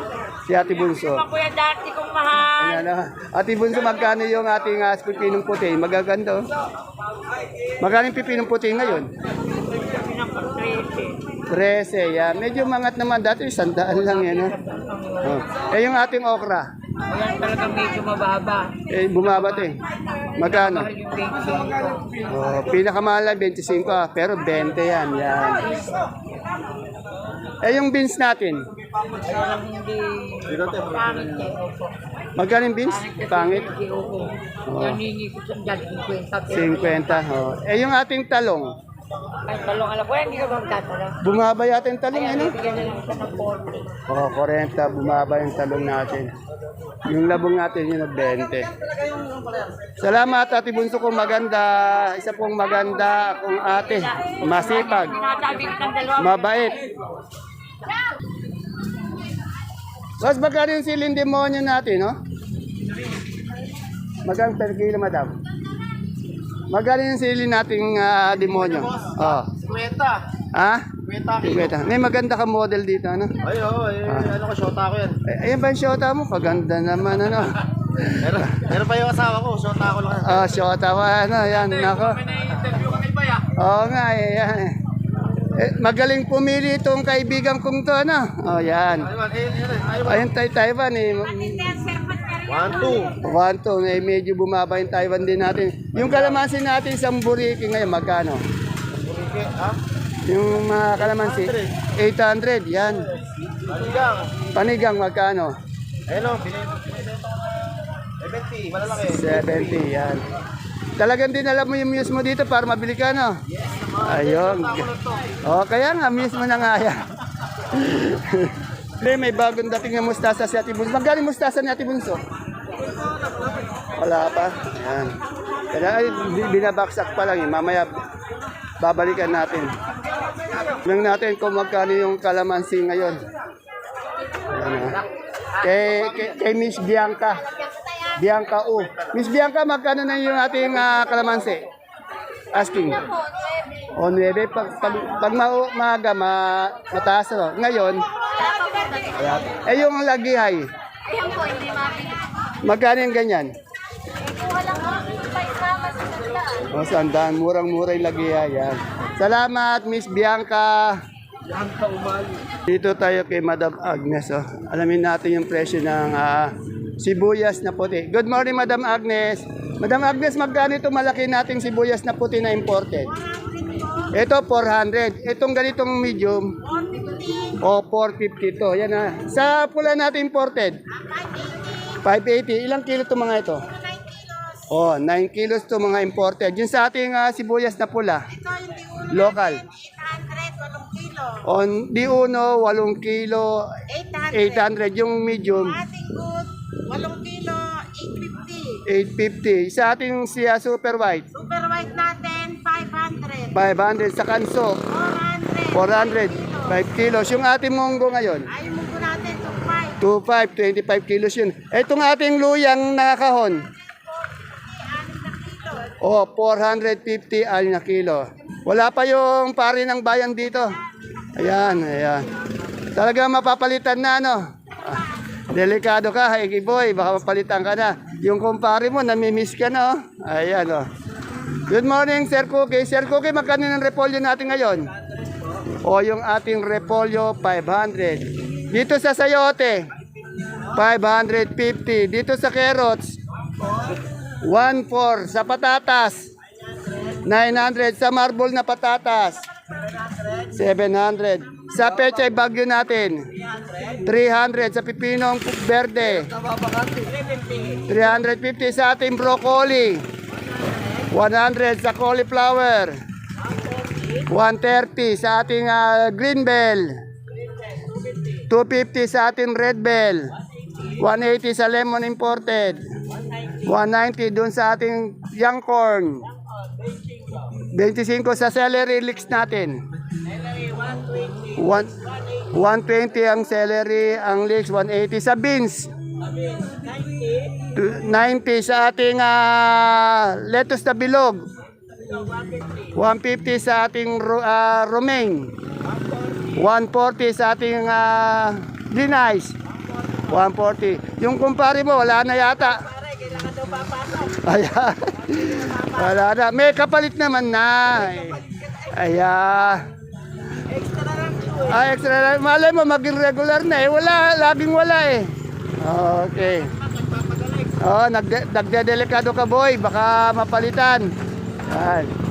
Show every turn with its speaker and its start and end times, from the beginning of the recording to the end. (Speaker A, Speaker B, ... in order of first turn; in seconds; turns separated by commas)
Speaker A: 0.5-1.2, Speaker B: 1.1-2.8, Speaker A: 2.6-6.5, Speaker A: 7.8-9.1, Speaker B: 9.9-11.2, Speaker A: 11.5-14.6, Speaker B: 14.4-15.4, Speaker A: 15.2-16.7, Speaker B: 17.1-18.7, Speaker A: 18.9-19.8, Speaker A: 20.4-20.9, Speaker B: 20.5-22.2, Speaker A: 22.3-25.8, Speaker A: 27.6-28.7, Speaker B: 29.2-31.9, Speaker C: 30.5-31.4, Speaker A: 32.4-33.7, Speaker B: 32.9-37.1, Speaker A: 34.7-35.0, Speaker A: 36.5-38.7, Speaker B: 39.5-41.1, Speaker A: 41.2-42.6, Speaker B: 42.2-43.9, Speaker A: 44.1-46.3, Speaker A: 47.1-48.7, Speaker A: 50.0-55.2, Speaker B: 54.5-56.3, Speaker A: 56.2-56.8, Speaker A: 60.2-62.2, Speaker A: 64.2-65.4, Speaker A: 66.7-69.5, Speaker C: 68.5-70.2, Speaker A: 70.5-73.3, Speaker C: 71.0-71.7, Speaker C: 73.4-75.2, Speaker A: 75.3-78.5, Speaker C: 78.2-80.7, Speaker A: 80.2-82.2, Speaker C: 82.3-83.5, Speaker A: 83.6-84.8, Speaker A: 85.5-89.1, Speaker C: 89.1-90.3, Speaker A: 90.0-91.7, Speaker D: 91.1-93.2, Speaker C: 92.5-93.2, Speaker A: 93.2-98.4, Speaker C: 98.9-99.8, Speaker A: 100.3-103.1, Speaker C: 101.1-101.7, Speaker C: 103.7-104.3, Speaker A: 104.5-105.5, Speaker C: 106.1-107.0, Speaker C: 108.2-109.8, Speaker A: 109.0-110.2, Speaker A: 111.0-113.4, Speaker C: 113.7-115.4, Speaker A: 114.0-114.9, Speaker A: 115.4-117.1, Speaker A: 117.7-122.2, Speaker C: 122.9-123.8, Speaker A: 124.0-125.2, Speaker A: 125.7-128.0, Speaker A: 128.8-129.7, Speaker A: 130.8-133.2, Speaker A: 134.5-135.0, Speaker A: 135.6-137.4, Speaker D: 137.6-138.1, Speaker A: 138.2-141.7, Speaker A: 142.5-143.1, Speaker A: 144.0-148.1, Speaker D: 148.3-149.2, Speaker B: 148.7-149.2, Speaker A: 149.2-150.7, Speaker B: 151.1-152.2, Speaker A: 152.6-153.5, Speaker B: 154.2-156.6, Speaker A: 156.7-161.0, Speaker C: 161.6-162.4, Speaker A: 162.7-173.1, Speaker D: 173.0-174.2, Speaker A: 174.1-176.5, Speaker D: 176.6-177.6, Speaker A: 177.6-180.8, Speaker D: 180.9-182.0, Speaker A: 182.0-183.6, Speaker D: 183.6-184.7, Speaker A: 184.7-188.3, Speaker D: 188.3-191.5, Speaker A: 189.1-189.6, Speaker A: 191.4-193.8, Speaker D: 193.9-194.7, Speaker A: 194.3-195.8, Speaker D: 195.5-198.8, Speaker A: 198.9-201.3, Speaker D: 201.3-203.6, Speaker A: 203.5-204.8, Speaker D: 204.9-206.8, Speaker A: 205.7-208.5, Speaker D: 208.5-210.0, Speaker A: 210.0-213.7, Speaker D: 213.8-216.0, Speaker A: 216.0-220.8, Speaker A: 221.4-222.3, Speaker A: 222.9-230.9, Speaker A: 231.7-234.9, Speaker A: 235.8-239.9, Speaker A: 240.7-243.2, Speaker A: 244.4-246.3, Speaker A: 247.2-249.5, Speaker A: 250.5-253.3, Speaker D: 253.6-253.9, Speaker A: 254.0-256.3, Speaker D: 256.9-257.9, Speaker A: 257.9-260.1, Speaker A: 261.1-263.0, Speaker A: 264.3-267.0, Speaker A: 268.5-270.3, Speaker A: 271.0-272.8, Speaker A: 273.6-276.2, Speaker A: 277.7-279.8, Speaker D: 280.4-281.6, Speaker A: 281.6-282.0, Speaker D: 282.1-282.4, Speaker A: 282.5-285.9, Speaker D: 286.3-287.6, Speaker A: 287.7-291.5, Speaker D: 292.1-292.9, Speaker A: 292.9-295.5, Speaker A: 296.5-299.6, Speaker A: 300.3-302.8, Speaker D: 302.4-304.4, Speaker A: 304.4-309.9, Speaker D: 305.3-306.2, Speaker D: 308.0-309.1, Speaker D: 310.7-311.9, Speaker A: 311.7-316.7, Speaker D: 316.9-317.8, Speaker A: 317.8-321.1, Speaker A: 321.7-322.1